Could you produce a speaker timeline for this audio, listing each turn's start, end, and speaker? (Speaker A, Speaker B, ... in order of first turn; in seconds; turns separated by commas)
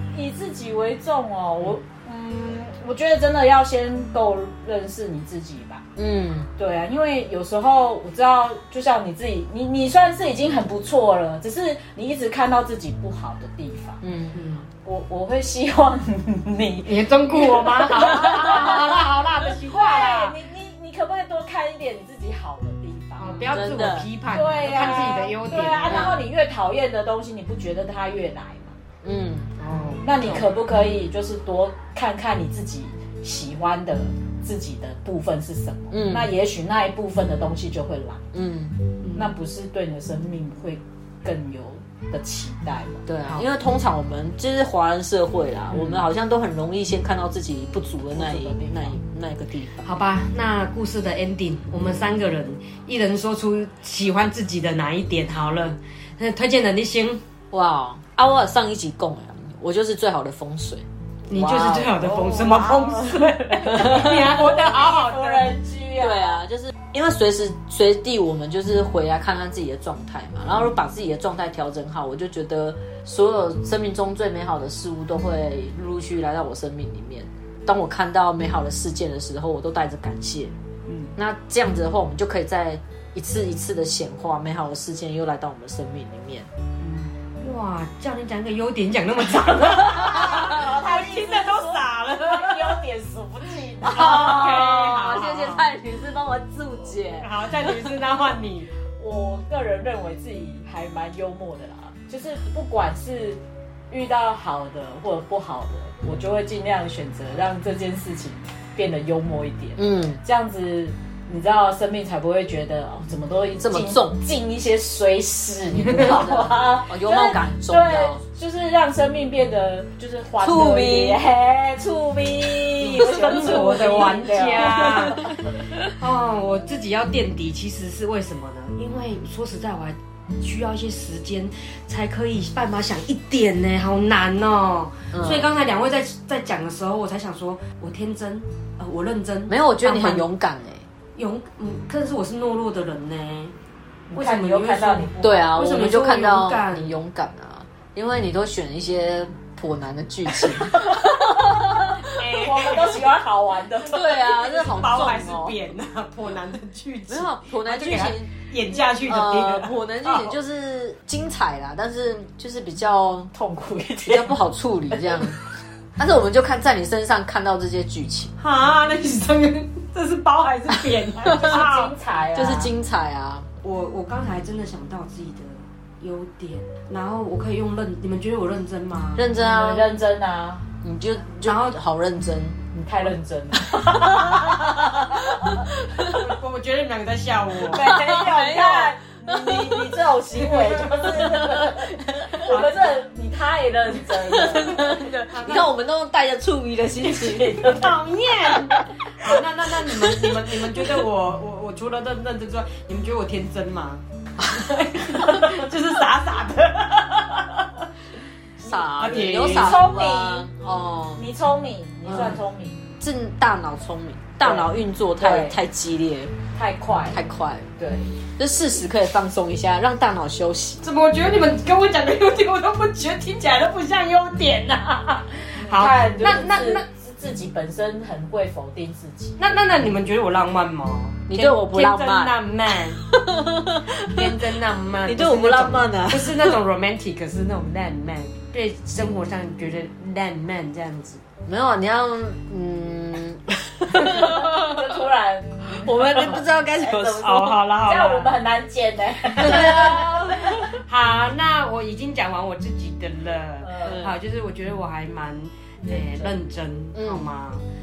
Speaker A: 0.1-5.9, Speaker B: 6.0-6.5, Speaker A: 6.6-14.0, Speaker B: 14.0-14.4, Speaker C: 14.3-14.7, Speaker A: 14.8-18.8, Speaker C: 16.9-20.4, Speaker A: 19.6-23.5, Speaker C: 23.2-26.2, Speaker B: 23.5-24.1, Speaker A: 24.3-28.8, Speaker B: 25.9-26.1, Speaker B: 29.0-29.5, Speaker C: 29.6-30.5, Speaker A: 30.0-38.2, Speaker B: 35.9-36.3, Speaker B: 38.3-38.8, Speaker C: 39.0-39.3, Speaker A: 39.1-43.1, Speaker B: 43.1-49.9, Speaker A: 48.1-49.0, Speaker C: 49.8-57.2, Speaker B: 57.5-61.9, Speaker C: 61.3-65.6, Speaker A: 61.9-63.8, Speaker B: 63.6-64.3, Speaker A: 64.3-66.4, Speaker B: 66.0-80.5, Speaker A: 80.9-81.2, Speaker B: 81.2-86.5, Speaker A: 86.8-87.2, Speaker C: 87.4-92.8, Speaker A: 89.9-94.1, Speaker C: 93.8-95.7, Speaker B: 93.8-97.8, Speaker C: 97.1-98.7, Speaker A: 99.0-125.2, Speaker B: 109.8-110.2, Speaker B: 113.6-114.2, Speaker C: 115.8-116.2, Speaker B: 115.9-118.2, Speaker B: 120.4-121.2, Speaker C: 122.8-125.4, Speaker B: 124.7-125.6, Speaker C: 125.9-140.3, Speaker B: 135.1-135.5, Speaker B: 139.5-140.9, Speaker C: 141.2-143.5, Speaker A: 144.1-145.4, Speaker C: 144.1-147.0, Speaker B: 145.2-152.0, Speaker A: 150.7-151.1, Speaker C: 152.2-153.1, Speaker A: 152.4-154.2, Speaker B: 153.8-155.6, Speaker C: 154.1-160.4, Speaker B: 157.1-158.3, Speaker B: 159.0-163.3, Speaker A: 163.3-164.4, Speaker B: 164.1-165.4, Speaker A: 164.9-165.3, Speaker B: 166.0-168.3, Speaker C: 168.4-171.9, Speaker A: 171.3-172.7, Speaker B: 171.3-171.6, Speaker B: 172.3-173.5, Speaker C: 173.6-179.9, Speaker B: 179.2-179.9, Speaker A: 179.6-180.7, Speaker B: 180.8-182.6, Speaker C: 181.4-181.8, Speaker A: 182.7-184.8, Speaker B: 183.8-184.5, Speaker B: 185.2-186.1, Speaker C: 186.0-187.9, Speaker A: 187.7-195.0, Speaker B: 187.8-189.8, Speaker C: 190.5-191.1, Speaker B: 191.1-192.5, Speaker C: 192.4-193.0, Speaker B: 194.3-197.8, Speaker C: 194.7-195.7, Speaker A: 197.2-197.8, Speaker C: 197.6-207.5, Speaker C: 208.6-209.8, Speaker B: 208.6-211.2, Speaker A: 209.1-210.5, Speaker A: 211.2-212.8, Speaker B: 212.1-212.4, Speaker B: 213.0-216.3, Speaker A: 214.4-215.6, Speaker A: 216.5-217.2, Speaker B: 217.1-217.7, Speaker A: 217.8-218.2, Speaker B: 218.3-220.9, Speaker C: 220.8-226.9, Speaker A: 225.6-229.4, Speaker C: 229.4-233.0, Speaker B: 231.3-232.4, Speaker B: 233.1-234.1, Speaker C: 233.9-241.2, Speaker B: 235.0-236.6, Speaker B: 241.5-244.7, Speaker A: 244.2-250.3, Speaker B: 245.8-247.7, Speaker C: 247.2-248.4, Speaker C: 249.4-250.1, Speaker B: 249.4-250.8, Speaker C: 250.7-257.6, Speaker A: 253.6-254.0, Speaker B: 253.8-254.1, Speaker A: 255.8-256.4, Speaker B: 256.9-257.3